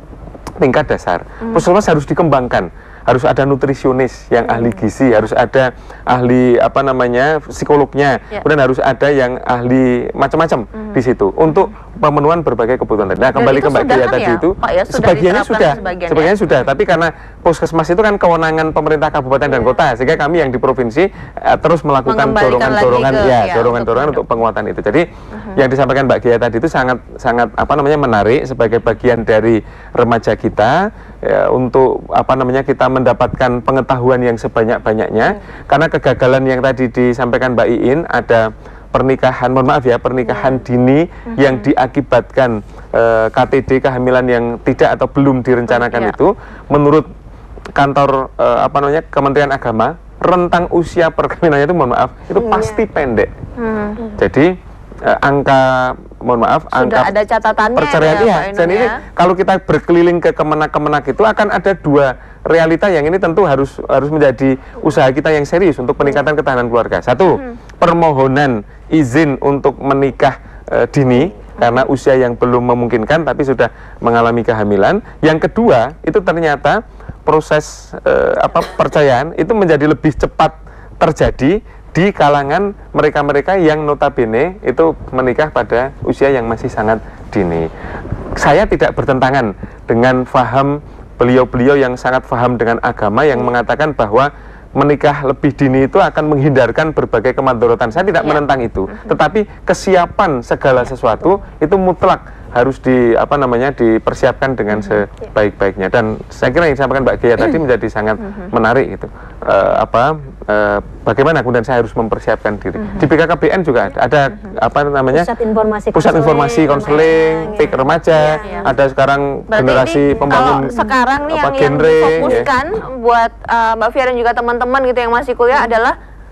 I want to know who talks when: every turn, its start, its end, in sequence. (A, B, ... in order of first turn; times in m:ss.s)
0:00.6-0:47.1 A
0:04.5-0:04.8 B
0:13.3-0:16.5 B
0:15.7-0:16.0 C
0:22.1-0:24.2 B
0:25.4-0:25.6 B
0:41.4-0:41.6 B
0:45.7-0:46.2 B
0:47.8-0:53.3 A
0:52.4-0:52.8 C
0:53.6-0:54.0 B
0:54.2-0:54.5 A
0:55.0-0:57.1 A
0:56.7-0:59.0 B
0:57.8-1:27.7 A
1:28.4-1:55.3 A
1:38.1-1:38.4 B
1:44.7-1:45.0 B
1:52.8-1:53.1 B
1:55.1-1:58.8 C
1:55.9-2:00.8 A
1:58.4-1:58.7 B
1:59.5-2:06.0 B
2:00.1-2:00.9 C
2:01.3-2:02.5 A
2:02.2-2:02.5 C